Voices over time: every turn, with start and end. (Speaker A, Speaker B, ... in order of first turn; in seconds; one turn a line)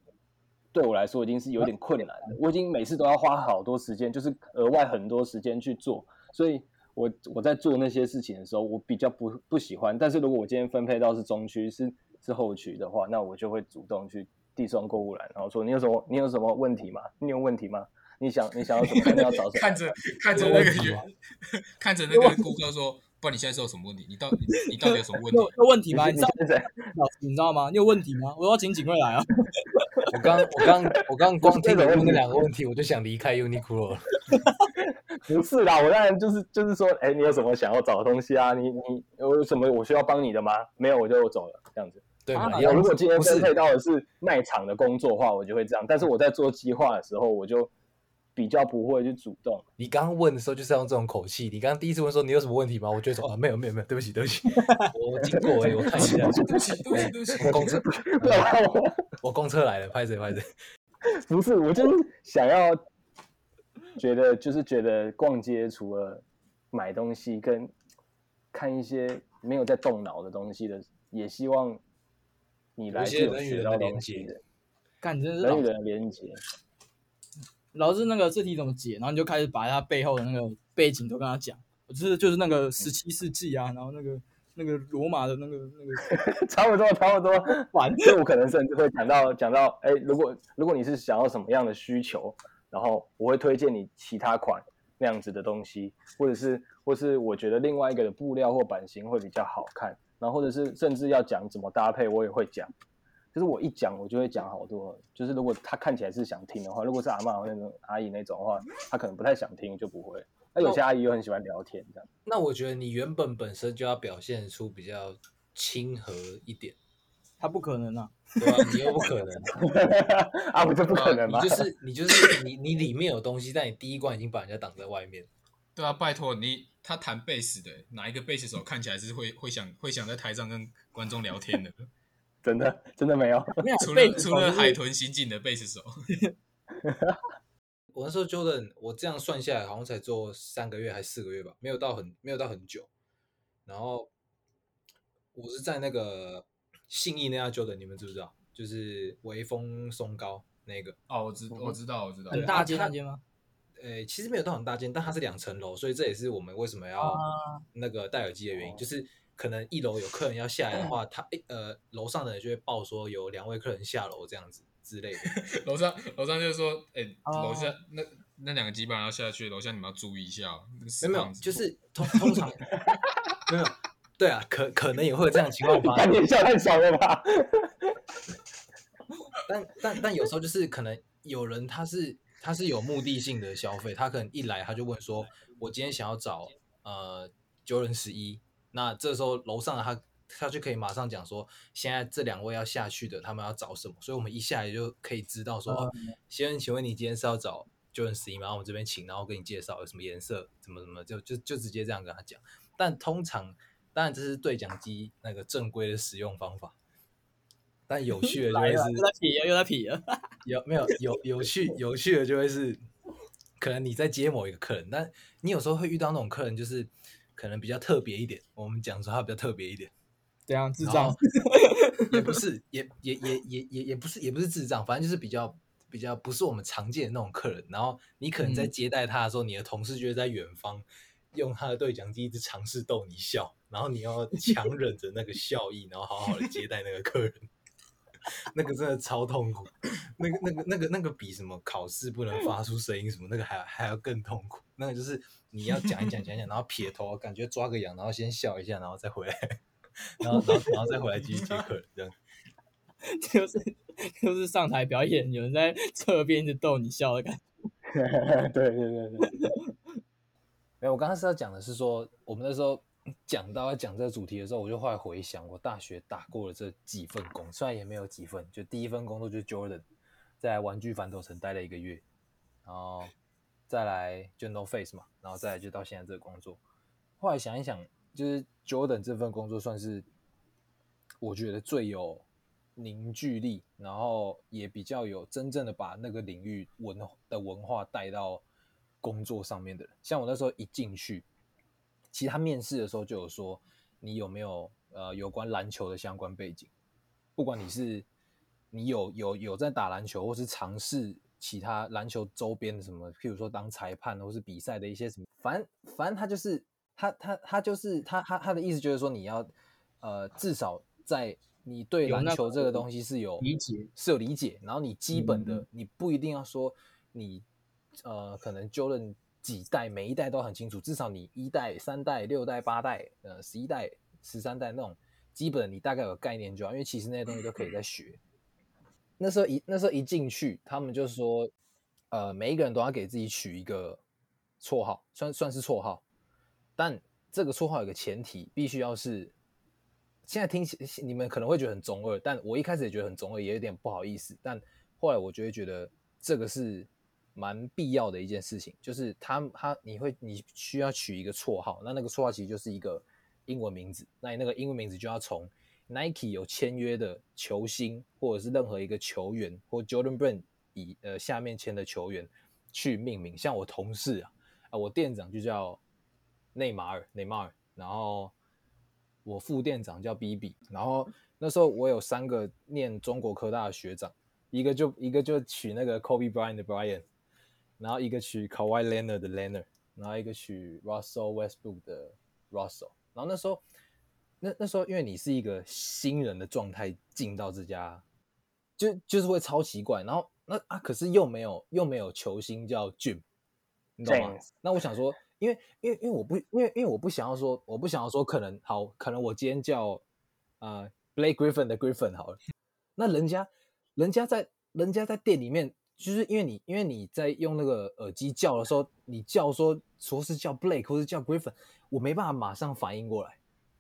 Speaker A: 0.7-19.8
Speaker B: 18.9-25.6
Speaker C: 20.4-20.9
Speaker D: 20.4-21.0
Speaker C: 22.1-22.5
Speaker C: 24.6-26.4
Speaker A: 25.9-26.9
Speaker C: 26.9-30.0
Speaker D: 30.1-34.2
Speaker A: 31.4-32.3
Speaker A: 35.1-42.1
Speaker D: 42.2-43.5
Speaker C: 42.3-42.9
Speaker A: 42.6-47.7
Speaker A: 48.4-49.6
Speaker D: 49.8-58.5
Speaker C: 54.6-54.9
Speaker B: 56.0-57.7
Speaker A: 56.0-58.9
Speaker D: 59.2-60.5
Speaker A: 61.0-62.8
Speaker A: 64.0-67.7
Speaker A: 68.5-71.8
Speaker A: 72.8-74.4
Speaker D: 72.9-74.3
Speaker C: 75.0-75.7
Speaker A: 75.4-76.4
Speaker C: 77.7-86.1
Speaker A: 86.0-102.7
Speaker C: 87.7-88.1
Speaker A: 103.3-112.1
Speaker D: 112.3-116.8
Speaker C: 117.4-119.2
Speaker D: 118.4-119.5
Speaker A: 119.5-121.7
Speaker B: 120.9-121.2
Speaker D: 121.2-125.3
Speaker B: 125.8-131.9
Speaker A: 132.4-133.6
Speaker C: 133.6-134.8
Speaker B: 133.8-135.9
Speaker A: 136.8-137.2
Speaker D: 137.9-142.9
Speaker D: 143.7-144.1
Speaker D: 145.3-151.0
Speaker B: 151.1-152.6
Speaker C: 152.3-153.2
Speaker D: 152.3-152.9
Speaker D: 153.8-157.2
Speaker C: 157.0-157.6
Speaker D: 157.7-165.3
Speaker B: 165.2-171.6
Speaker C: 167.3-167.8
Speaker D: 171.0-172.7
Speaker D: 173.5-176.2
Speaker A: 175.7-177.9
Speaker D: 179.5-206.8
Speaker C: 195.7-196.1
Speaker D: 207.9-209.1
Speaker C: 208.2-210.3
Speaker D: 210.4-212.8
Speaker D: 213.6-219.9
Speaker C: 220.5-222.4
Speaker D: 220.8-221.2
Speaker D: 222.1-237.5
Speaker C: 228.4-228.7
Speaker D: 238.3-249.6
Speaker D: 250.2-252.2
Speaker C: 253.1-257.4
Speaker A: 257.9-259.3
Speaker C: 259.3-259.6
Speaker D: 260.8-269.9
Speaker D: 270.4-272.0
Speaker D: 272.6-273.1
Speaker D: 273.7-276.6
Speaker D: 277.2-280.1
Speaker D: 281.2-282.2
Speaker D: 282.8-288.4
Speaker D: 289.0-291.3
Speaker D: 292.1-296.7
Speaker D: 297.4-298.1
Speaker D: 298.7-309.5
Speaker D: 310.0-313.4
Speaker C: 312.1-312.8
Speaker C: 313.4-313.9
Speaker D: 314.0-328.2
Speaker C: 315.1-315.6
Speaker D: 329.2-331.5
Speaker D: 332.1-334.0
Speaker D: 334.6-336.0
Speaker D: 336.8-339.3
Speaker D: 340.2-365.8
Speaker D: 366.6-368.3
Speaker D: 369.2-377.1
Speaker D: 377.8-383.6
Speaker D: 384.4-388.0
Speaker D: 388.8-393.2
Speaker D: 394.0-400.0
Speaker A: 394.1-394.5
Speaker D: 400.6-402.4
Speaker D: 403.0-413.4